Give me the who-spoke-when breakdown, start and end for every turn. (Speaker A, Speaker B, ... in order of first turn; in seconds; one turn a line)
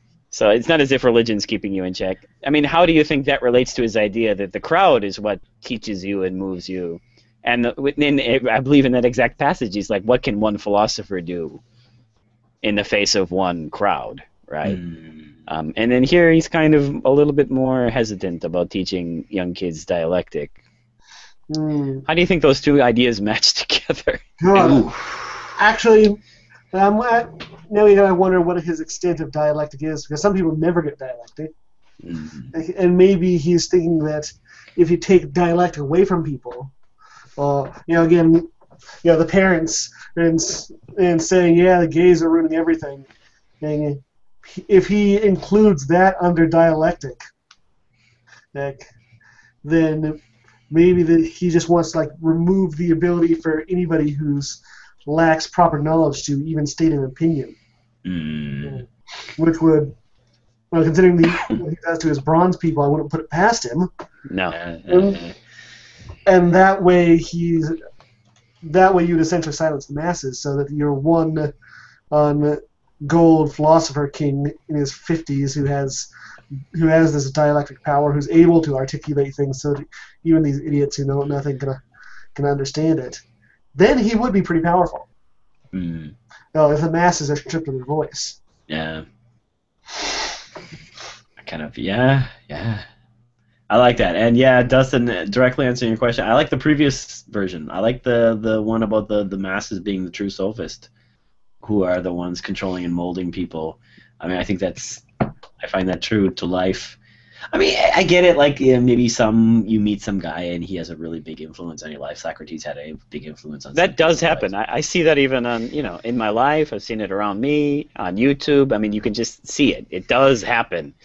Speaker A: 0.3-11.6
Speaker A: 12.6-14.8
Speaker B: 14.6-15.2
Speaker A: 15.5-20.5
Speaker C: 21.5-22.1
Speaker A: 22.1-24.4
Speaker C: 24.4-24.9
Speaker B: 24.5-25.5
Speaker C: 25.6-26.2
Speaker C: 26.7-31.5
Speaker B: 32.1-32.5
Speaker C: 32.5-36.7
Speaker C: 37.4-38.5
Speaker C: 39.0-43.1
Speaker C: 43.6-47.2
Speaker C: 48.5-48.9
Speaker C: 49.6-57.6
Speaker B: 58.0-58.8
Speaker C: 59.4-59.9
Speaker C: 60.7-63.9
Speaker A: 64.3-64.6
Speaker B: 64.5-65.3
Speaker C: 64.9-65.2
Speaker C: 66.2-67.8
Speaker C: 68.6-71.5
Speaker C: 72.1-76.1
Speaker C: 76.7-81.8
Speaker C: 82.3-83.2
Speaker C: 83.8-85.1
Speaker B: 85.7-86.1
Speaker C: 86.5-88.4
Speaker B: 88.7-89.0
Speaker B: 91.4-92.8
Speaker B: 93.7-100.9
Speaker B: 101.6-105.0
Speaker B: 105.6-107.0
Speaker B: 107.5-114.5
Speaker A: 113.7-120.9